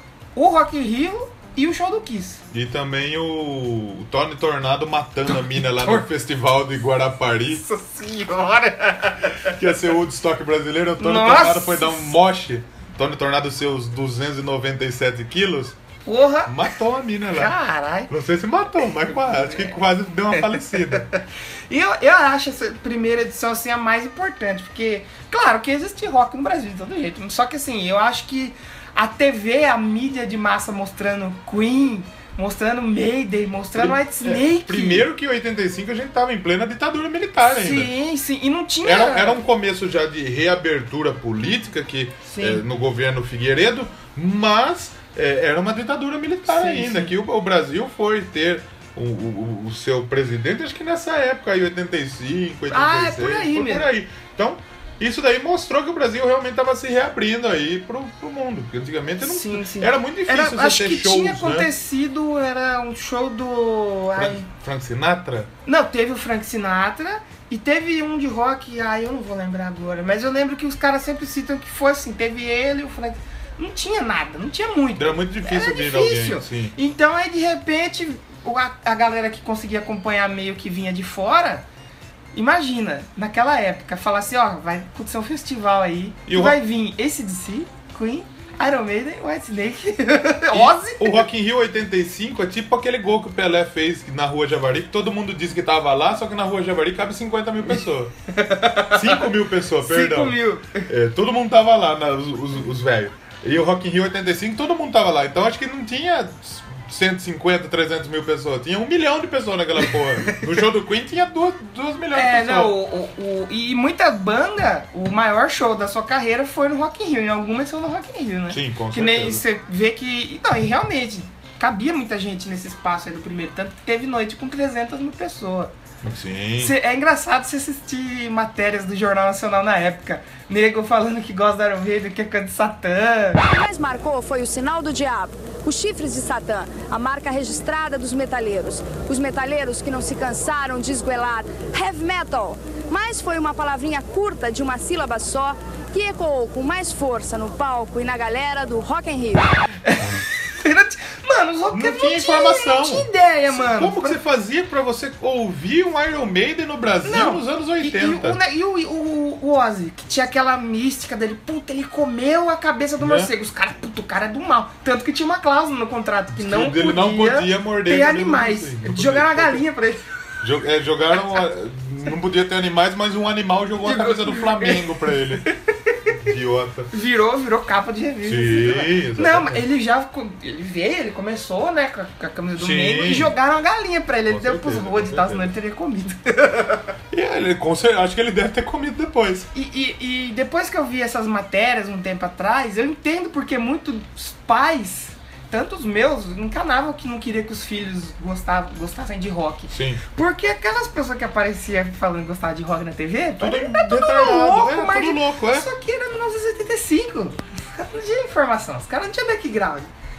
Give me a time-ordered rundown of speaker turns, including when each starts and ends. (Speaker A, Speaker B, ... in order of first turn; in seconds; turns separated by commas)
Speaker A: 0.3-2.4, Speaker B: 2.5-7.6, Speaker A: 5.3-6.0, Speaker A: 7.5-9.5, Speaker B: 9.4-15.8, Speaker A: 11.0-12.1, Speaker A: 16.1-16.7, Speaker B: 16.5-17.6, Speaker A: 17.3-18.1, Speaker B: 18.1-21.1, Speaker A: 19.0-19.8, Speaker A: 20.3-35.1, Speaker B: 33.8-37.9, Speaker A: 37.4-39.4, Speaker B: 38.8-61.7, Speaker A: 42.2-42.6, Speaker A: 46.5-47.1, Speaker A: 52.7-53.9, Speaker A: 59.2-64.5, Speaker B: 64.1-65.5, Speaker A: 65.7-81.7, Speaker B: 75.0-76.7, Speaker A: 82.3-91.3, Speaker B: 86.3-86.6, Speaker B: 90.5-98.1, Speaker A: 98.3-99.2, Speaker B: 98.9-112.8, Speaker A: 99.8-100.9, Speaker A: 112.1-125.7, Speaker B: 118.5-119.4, Speaker B: 126.0-126.8, Speaker A: 126.6-133.4, Speaker C: 133.4-149.5, Speaker A: 149.8-154.2, Speaker B: 151.7-158.4, Speaker A: 157.0-170.1, Speaker B: 163.0-163.3, Speaker B: 166.3-169.6, Speaker B: 170.4-175.5, Speaker A: 173.8-176.1, Speaker B: 176.1-176.9, Speaker A: 176.9-186.8, Speaker B: 178.2-179.6, Speaker B: 182.6-183.3, Speaker B: 184.3-185.5, Speaker B: 187.1-189.5, Speaker A: 189.5-209.9, Speaker B: 199.7-200.0, Speaker B: 203.4-205.7